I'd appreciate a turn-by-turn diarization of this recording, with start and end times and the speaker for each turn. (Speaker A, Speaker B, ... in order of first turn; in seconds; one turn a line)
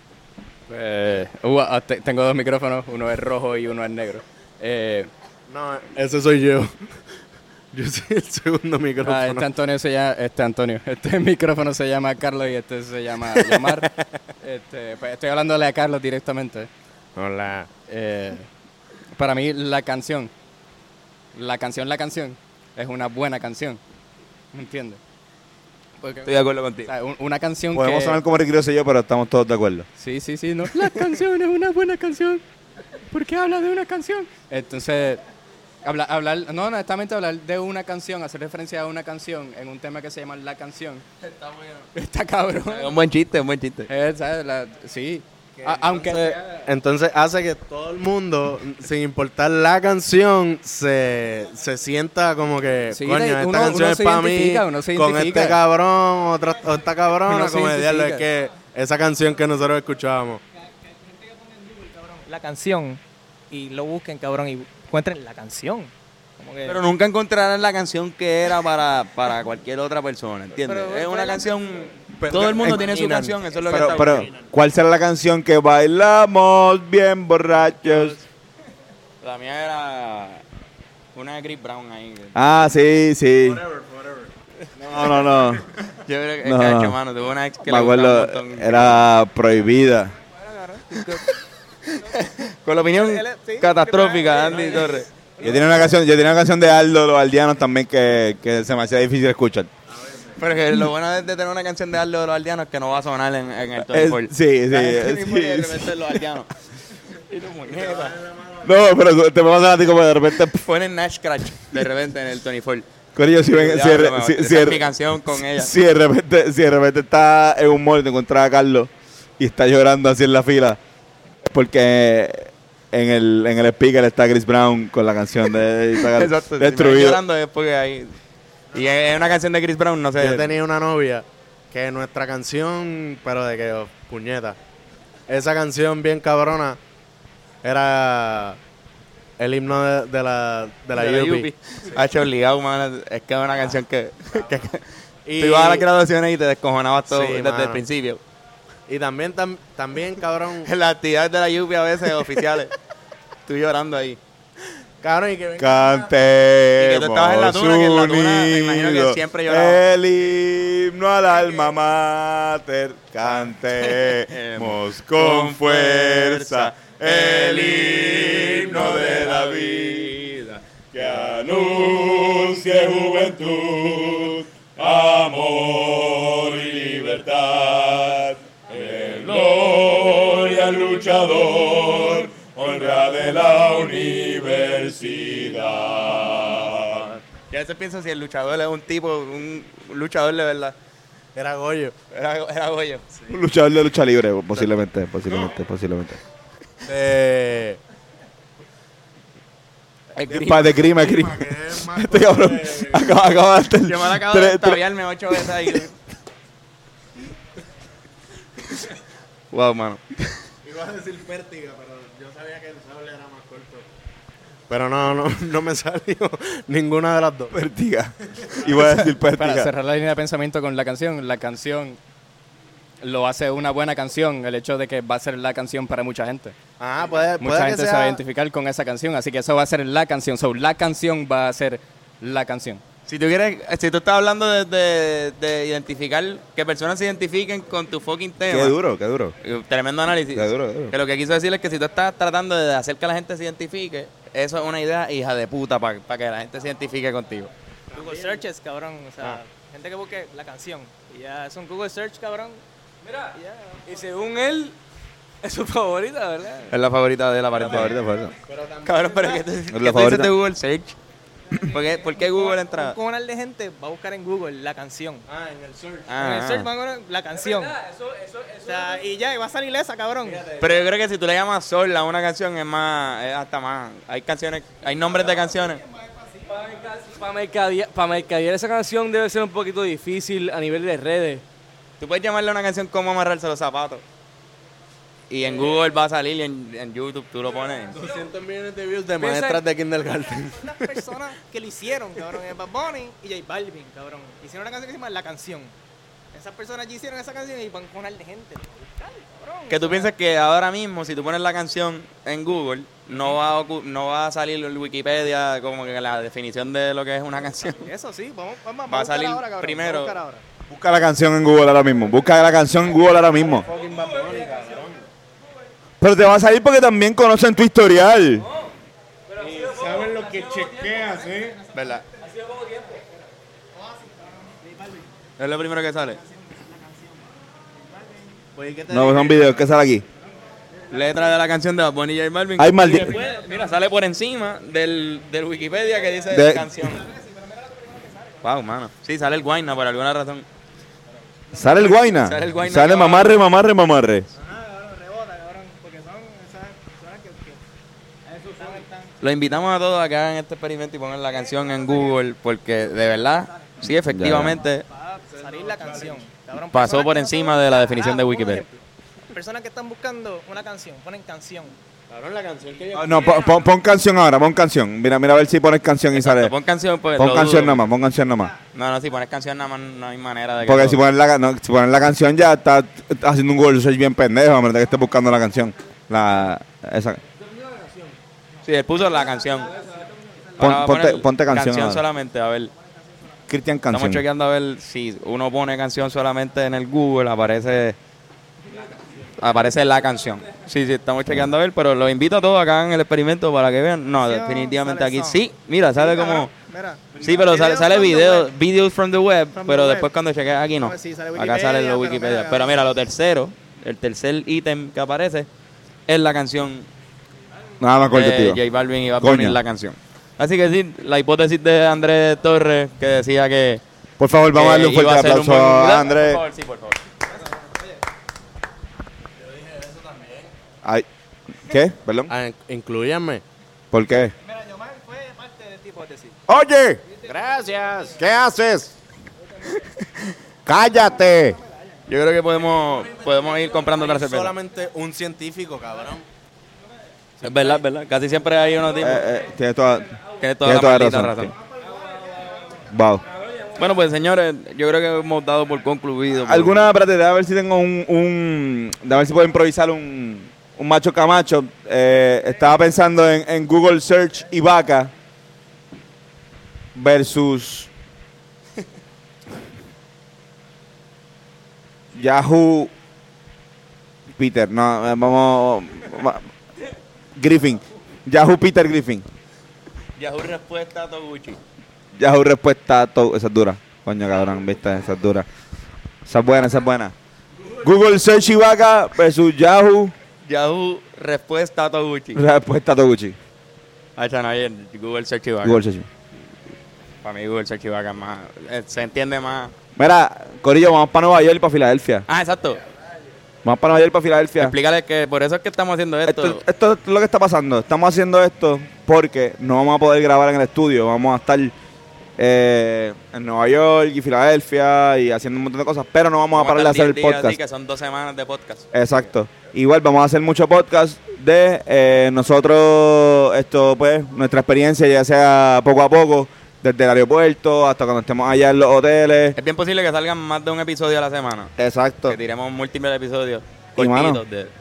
Speaker A: 0.7-5.1
Speaker B: 5.5-7.2
Speaker B: 7.7-9.5
Speaker A: 9.0-16.7
Speaker B: 13.2-14.1
Speaker B: 17.2-17.7
Speaker A: 17.9-18.5
Speaker A: 19.2-20.3
Speaker A: 21.4-23.8
Speaker A: 24.5-25.0
Speaker A: 26.0-26.3
Speaker C: 26.2-26.9
Speaker A: 26.9-28.2
Speaker D: 27.7-29.9
Speaker A: 30.0-32.4
Speaker A: 33.1-35.2
Speaker A: 35.8-41.0
Speaker C: 41.2-41.9
Speaker A: 42.0-42.9
Speaker C: 42.7-43.9
Speaker A: 43.9-46.6
Speaker B: 45.6-60.4
Speaker A: 52.9-55.6
Speaker A: 57.3-58.2
Speaker E: 61.2-66.8
Speaker C: 66.6-74.3
Speaker E: 70.5-71.5
Speaker B: 72.2-73.4
Speaker D: 73.7-78.2
Speaker C: 79.2-80.4
Speaker C: 81.2-82.4
Speaker D: 82.3-83.6
Speaker B: 83.6-84.3
Speaker D: 84.9-85.7
Speaker C: 85.9-89.0
Speaker D: 86.4-87.0
Speaker D: 87.7-90.1
Speaker E: 90.3-91.3
Speaker C: 91.8-95.1
Speaker E: 93.0-95.6
Speaker D: 95.4-99.7
Speaker C: 100.4-106.5
Speaker D: 103.8-106.2
Speaker C: 107.1-108.2
Speaker B: 107.7-108.7
Speaker D: 108.6-110.6
Speaker C: 110.3-112.9
Speaker D: 113.2-120.8
Speaker C: 113.5-115.7
Speaker D: 121.5-127.2
Speaker C: 126.1-128.2
Speaker C: 128.7-130.6
Speaker B: 130.2-134.6
Speaker B: 135.3-136.8
Speaker B: 137.6-138.6
Speaker B: 139.4-141.5
Speaker C: 140.9-148.2
Speaker B: 145.3-145.9
Speaker B: 147.1-147.8
Speaker B: 148.9-150.7
Speaker C: 150.7-152.7
Speaker C: 153.5-154.2
Speaker B: 155.0-156.1
Speaker D: 155.6-170.3
Speaker C: 156.8-159.8
Speaker C: 163.8-170.6
Speaker D: 170.9-187.1
Speaker B: 178.7-179.4
Speaker C: 187.5-190.8
Speaker B: 191.3-192.0
Speaker C: 192.1-193.1
Speaker D: 193.3-196.2
Speaker B: 195.3-195.5
Speaker B: 196.8-197.8
Speaker C: 200.1-201.2
Speaker B: 200.3-203.1
Speaker D: 200.5-204.8
Speaker C: 203.9-205.9
Speaker D: 205.4-205.8
Speaker C: 209.5-210.4
Speaker B: 210.6-213.9
Speaker B: 214.7-217.6
Speaker D: 217.5-219.7
Speaker B: 218.4-218.8
Speaker A: 218.7-222.0
Speaker A: 223.0-226.5
Speaker B: 226.8-228.2
Speaker A: 227.4-232.8
Speaker C: 233.1-238.8
Speaker D: 238.5-239.3
Speaker C: 239.4-247.5
Speaker D: 240.3-240.9
Speaker B: 247.9-248.4
Speaker E: 247.9-252.6
Speaker F: 253.0-254.8
Speaker E: 253.3-253.8
Speaker F: 255.4-256.8
Speaker C: 256.7-257.9
Speaker B: 257.6-257.9
Speaker D: 257.6-258.4
Speaker B: 258.4-259.3
Speaker C: 258.8-261.0
Speaker D: 259.7-260.3
Speaker C: 261.6-263.0
Speaker E: 261.7-265.3
Speaker B: 265.3-266.1
Speaker C: 266.1-266.7
Speaker E: 266.1-267.8
Speaker F: 267.4-269.0
Speaker E: 268.6-270.5
Speaker B: 270.2-270.8
Speaker C: 270.6-275.8
Speaker F: 276.4-281.4
Speaker C: 282.0-284.0
Speaker C: 285.3-288.1
Speaker B: 287.9-291.1
Speaker F: 289.2-289.6
Speaker E: 290.3-295.8
Speaker E: 296.3-300.1
Speaker C: 299.7-307.9
Speaker E: 307.7-310.4
Speaker C: 308.9-310.2
Speaker D: 310.7-313.7
Speaker B: 313.4-315.1
Speaker F: 313.9-314.3
Speaker D: 316.0-318.5
Speaker F: 318.4-318.7
Speaker F: 319.3-321.1
Speaker B: 319.4-321.6
Speaker C: 321.7-322.1
Speaker F: 322.2-323.0
Speaker C: 325.4-326.2
Speaker B: 328.6-329.5
Speaker D: 328.9-330.1
Speaker C: 330.9-337.1
Speaker D: 332.6-333.2
Speaker D: 336.3-336.7
Speaker E: 337.1-338.4
Speaker C: 338.4-340.5
Speaker D: 341.5-344.3
Speaker C: 342.1-343.4
Speaker E: 344.3-347.6
Speaker E: 348.4-349.1
Speaker C: 349.2-354.9
Speaker D: 354.1-354.6
Speaker E: 354.9-361.8
Speaker B: 355.3-356.2
Speaker C: 356.7-358.6
Speaker B: 362.1-363.7
Speaker D: 362.9-366.5
Speaker C: 366.1-367.9
Speaker D: 367.2-368.5
Speaker C: 368.7-371.0
Speaker D: 370.6-377.2
Speaker C: 378.6-379.7
Speaker D: 380.6-382.0
Speaker C: 380.6-382.7
Speaker D: 383.5-384.2
Speaker C: 383.9-388.0
Speaker C: 389.4-396.5
Speaker E: 394.2-395.4
Speaker E: 395.9-398.5
Speaker C: 397.2-405.5
Speaker E: 399.5-400.1
Speaker E: 400.8-402.8
Speaker C: 406.1-406.9
Speaker D: 407.8-408.6
Speaker C: 408.1-413.8
Speaker D: 409.2-409.6
Speaker D: 414.2-416.4
Speaker C: 414.5-417.0
Speaker B: 419.5-420.5
Speaker D: 420.8-422.3
Speaker B: 422.3-423.4
Speaker D: 423.9-424.3
Speaker E: 424.5-426.4
Speaker D: 426.5-427.0
Speaker B: 427.3-428.2
Speaker D: 428.0-428.9
Speaker D: 430.7-431.6
Speaker C: 432.1-434.6
Speaker B: 433.7-436.2
Speaker C: 437.4-439.2
Speaker D: 439.0-441.5
Speaker C: 440.4-441.6
Speaker F: 441.9-442.7
Speaker D: 442.9-443.2
Speaker F: 443.4-443.7
Speaker C: 443.8-446.9
Speaker D: 446.3-455.1
Speaker D: 456.9-457.9
Speaker D: 462.1-462.9
Speaker D: 464.3-466.5
Speaker D: 467.4-469.3
Speaker C: 470.2-471.6
Speaker D: 472.2-475.5
Speaker D: 476.3-477.1
Speaker D: 477.8-480.1
Speaker C: 480.5-482.4
Speaker D: 482.4-483.4
Speaker C: 484.2-485.8
Speaker D: 485.6-486.1
Speaker C: 487.2-489.7
Speaker D: 490.0-492.3
Speaker C: 492.3-492.8
Speaker D: 493.6-494.8
Speaker C: 494.6-496.6
Speaker D: 496.3-501.7
Speaker D: 502.4-507.6
Speaker C: 506.6-509.0
Speaker D: 508.9-519.6
Speaker C: 519.5-521.7
Speaker D: 521.8-522.4
Speaker C: 522.3-524.7
Speaker D: 524.0-524.4